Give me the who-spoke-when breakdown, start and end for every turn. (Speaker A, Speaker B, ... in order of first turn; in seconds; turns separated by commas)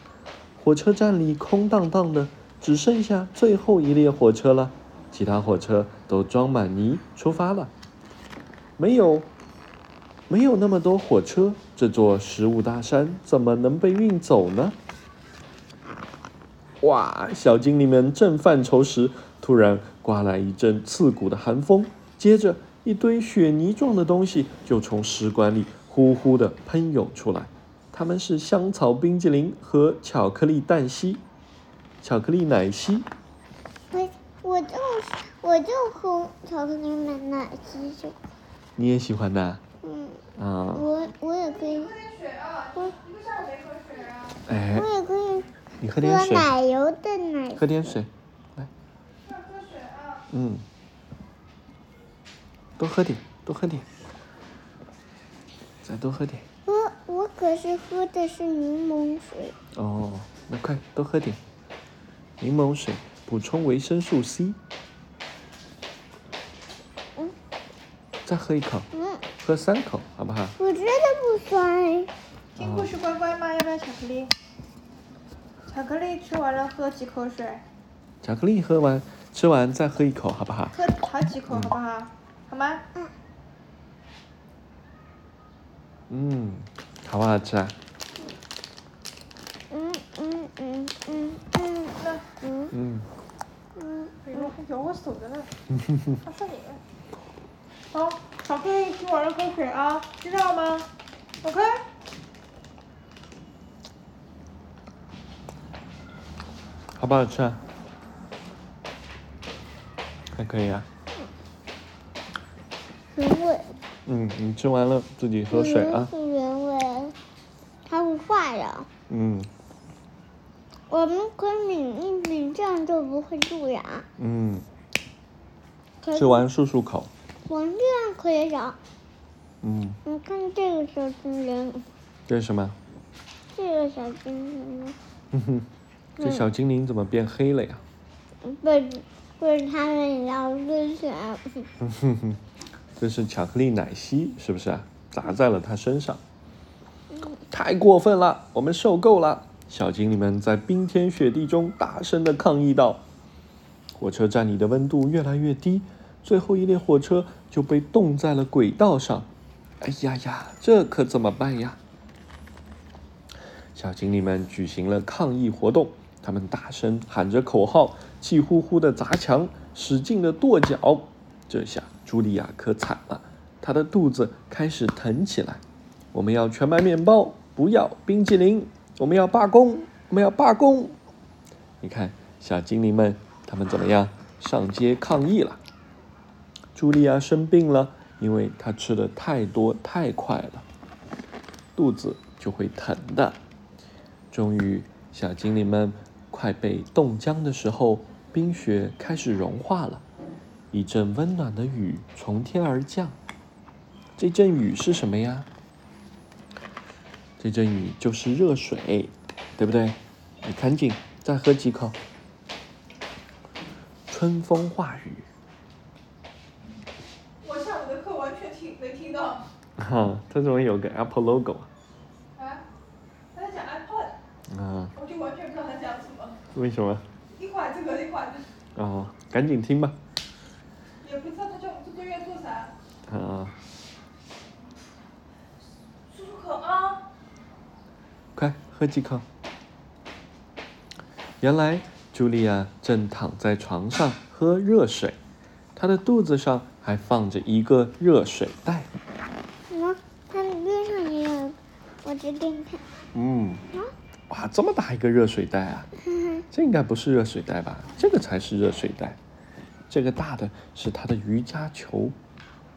Speaker A: 0.6-7.7, Speaker A: 8.8-9.3, Speaker A: 10.3-14.8, Speaker A: 16.8-31.2, Speaker A: 32.0-33.1, Speaker B: 33.9-38.2, Speaker A: 38.8-39.6, Speaker B: 39.8-40.2, Speaker A: 40.4-40.9, Speaker B: 40.8-42.0, Speaker C: 41.6-44.4, Speaker A: 44.5-44.9, Speaker B: 44.7-47.9, Speaker A: 45.8-46.5, Speaker A: 47.5-48.7, Speaker C: 49.2-50.2, Speaker A: 50.3-50.6, Speaker A: 52.8-53.9, Speaker A: 55.8-56.5, Speaker B: 56.7-59.6, Speaker A: 59.8-61.4, Speaker A: 62.4-64.6, Speaker A: 68.2-68.9, Speaker B: 68.9-69.2, Speaker A: 69.4-70.6, Speaker B: 70.6-72.1, Speaker C: 72.6-74.3, Speaker A: 72.6-72.9, Speaker C: 75.7-77.6, Speaker A: 78.2-80.8, Speaker C: 80.7-82.8, Speaker A: 81.5-81.8, Speaker A: 86.1-87.8, Speaker B: 89.7-92.7, Speaker A: 92.7-93.1, Speaker B: 93.8-94.5, Speaker C: 94.2-95.5, Speaker A: 95.7-96.2, Speaker C: 96.2-96.8, Speaker C: 97.9-100.9, Speaker C: 101.4-101.8, Speaker A: 107.0-107.6, Speaker A: 110.3-110.9, Speaker B: 113.1-113.7, Speaker A: 114.1-116.1, Speaker B: 115.5-117.2, Speaker B: 117.8-118.9, Speaker A: 119.1-119.5, Speaker B: 120.9-124.1, Speaker A: 124.2-124.7, Speaker B: 126.0-126.5, Speaker A: 126.1-127.1, Speaker B: 127.5-128.8, Speaker A: 129.6-130.0, Speaker B: 130.1-131.9, Speaker A: 132.3-132.8, Speaker B: 133.5-135.0, Speaker A: 135.3-135.7, Speaker B: 136.2-136.5, Speaker A: 136.2-137.8, Speaker B: 138.4-141.7, Speaker A: 141.8-142.4, Speaker A: 143.0-146.2, Speaker B: 147.1-147.4, Speaker A: 147.5-153.0, Speaker A: 154.0-159.3, Speaker A: 159.8-161.8, Speaker A: 163.8-175.6, Speaker A: 176.1-181.0, Speaker A: 181.8-185.6, Speaker A: 186.8-190.7, Speaker A: 191.8-193.4, Speaker A: 194.3-200.0, Speaker A: 200.7-203.2, Speaker A: 204.2-205.5, Speaker A: 207.4-212.0, Speaker A: 214.1-215.3, Speaker C: 217.4-219.4, Speaker A: 219.8-221.7, Speaker C: 222.3-222.6, Speaker C: 223.3-224.2, Speaker A: 224.5-224.9, Speaker C: 224.9-226.4, Speaker A: 226.5-227.1, Speaker C: 227.4-228.5, Speaker A: 228.8-230.0, Speaker C: 231.0-232.7, Speaker A: 233.1-233.6, Speaker C: 236.1-237.0, Speaker A: 238.3-239.3, Speaker A: 241.4-245.2, Speaker A: 245.8-248.9, Speaker B: 249.7-252.8, Speaker A: 253.1-253.6, Speaker A: 254.3-255.9, Speaker B: 256.0-256.5, Speaker A: 256.5-259.2, Speaker A: 259.9-262.2